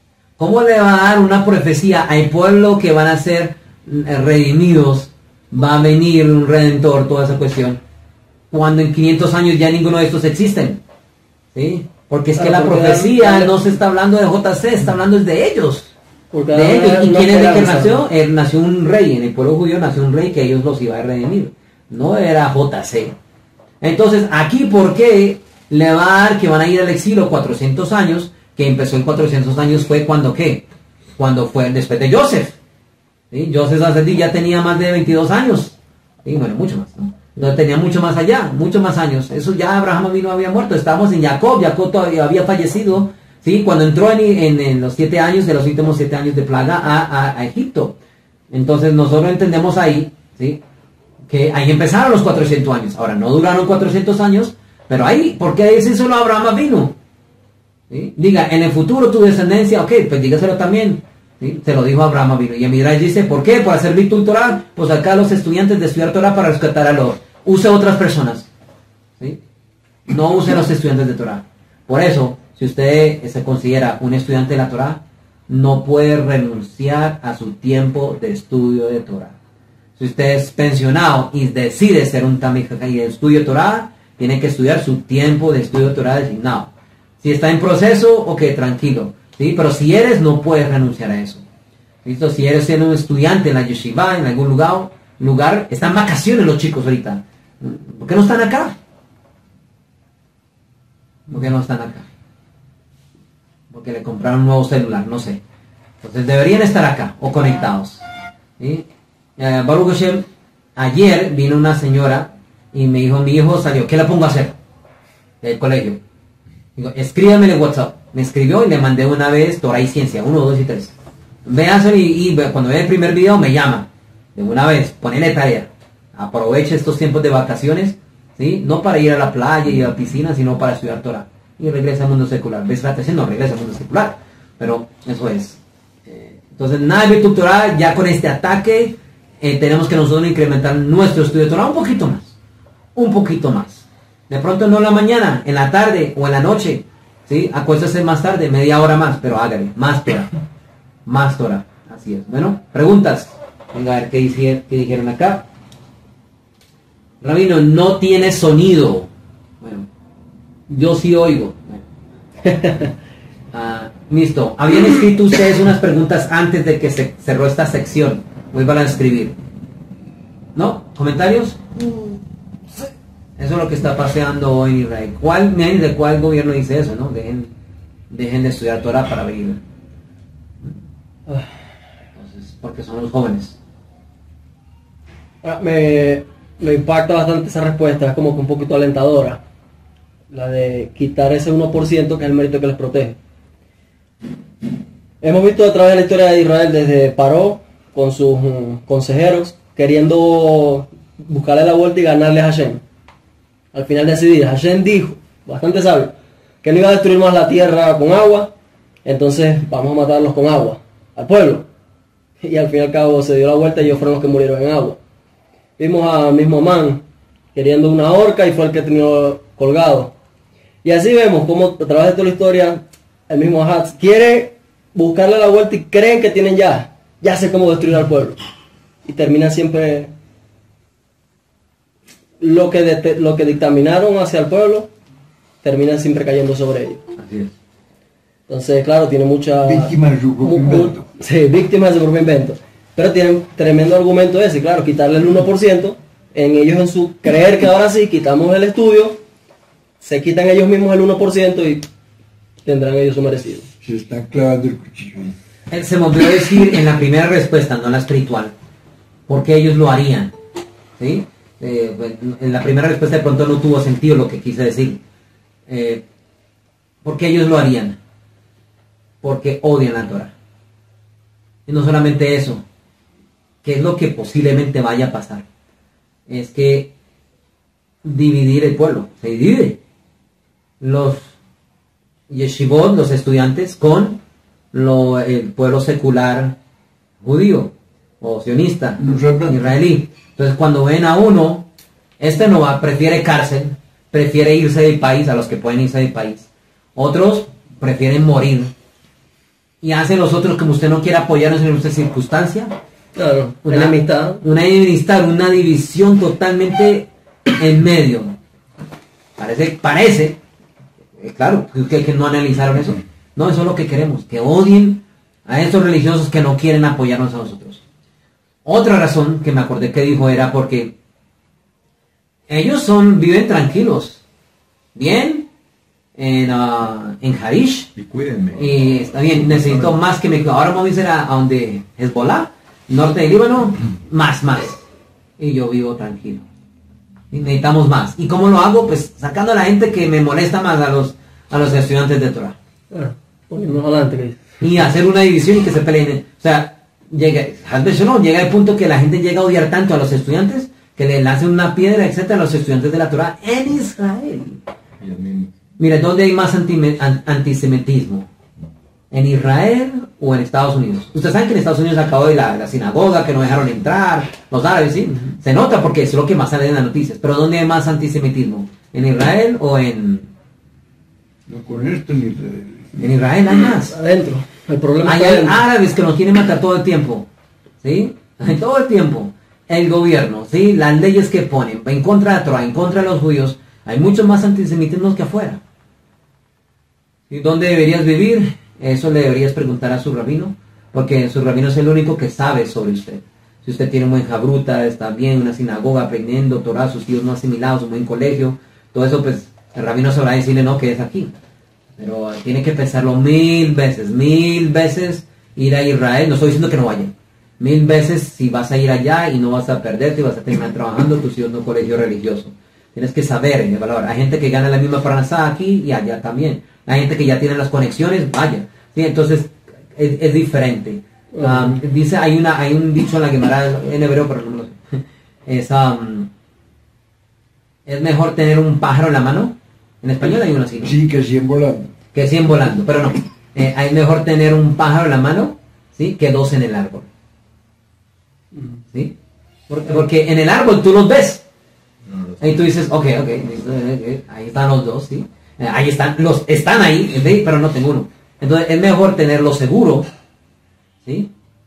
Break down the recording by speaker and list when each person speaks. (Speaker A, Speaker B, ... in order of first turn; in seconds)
Speaker A: 0.4-7.8, 8.5-10.8, 11.5-15.9, 16.5-23.2, 23.8-30.7, 31.2-32.6, 33.3-48.0, 48.5-50.6, 51.3-57.0, 57.9-68.5, 70.1-79.4, 80.0-91.4, 92.0-98.8, 101.3-102.1, 103.7-105.4, 106.0-108.0, 108.6-108.9, 109.4-114.6, 115.4-116.0, 116.8-120.9, 121.5-142.3, 142.9-150.3, 151.1-155.5, 157.2-159.1, 159.6-159.9, 160.7-161.8, 163.5-169.4, 170.6-171.6, 173.4-177.5, 178.1-179.6, 182.2-183.6, 237.2-237.5, 255.7-258.5, 259.3-260.3, 261.0-265.0, 265.7-266.0, 267.0-268.0, 269.2-270.3, 271.7-272.6, 273.6-275.5, 276.3-276.9, 278.0-279.8, 280.8-281.3, 282.3-284.2, 284.7-286.6, 287.2-291.7, 292.2-298.7, 299.8-302.7, 303.6-308.4, 309.4-310.4, 311.2-317.8, 318.6-320.9, 322.5-324.2, 324.9-325.5, 326.2-328.0, 328.5-334.9, 335.4-336.5, 337.3-342.6, 344.6-354.6, 355.8-358.3, 359.1-370.3, 373.0-374.0, 375.0-377.3, 377.8-385.6, 387.3-401.4, 402.0-426.3, 427.9-431.0, 432.1-437.1, 439.7-441.4, 442.4-450.1, 451.1-451.3
Speaker B: 12.4-13.6, 16.3-18.0, 162.5-162.9, 185.4-189.4, 190.3-193.2, 195.2-202.8, 203.7-208.5, 209.1-211.7, 212.4-215.0, 215.8-220.1, 220.8-228.4, 229.1-230.1, 232.4-234.9, 235.6-237.1, 238.5-249.2, 250.0-251.9, 252.7-253.7, 303.2-304.4, 342.9-344.4, 373.9-375.6, 421.3-421.8, 438.5-438.8
Speaker C: 239.6-241.1, 253.8-255.4, 289.0-289.6, 328.0-330.0, 355.0-355.5, 371.5-373.0, 430.8-431.9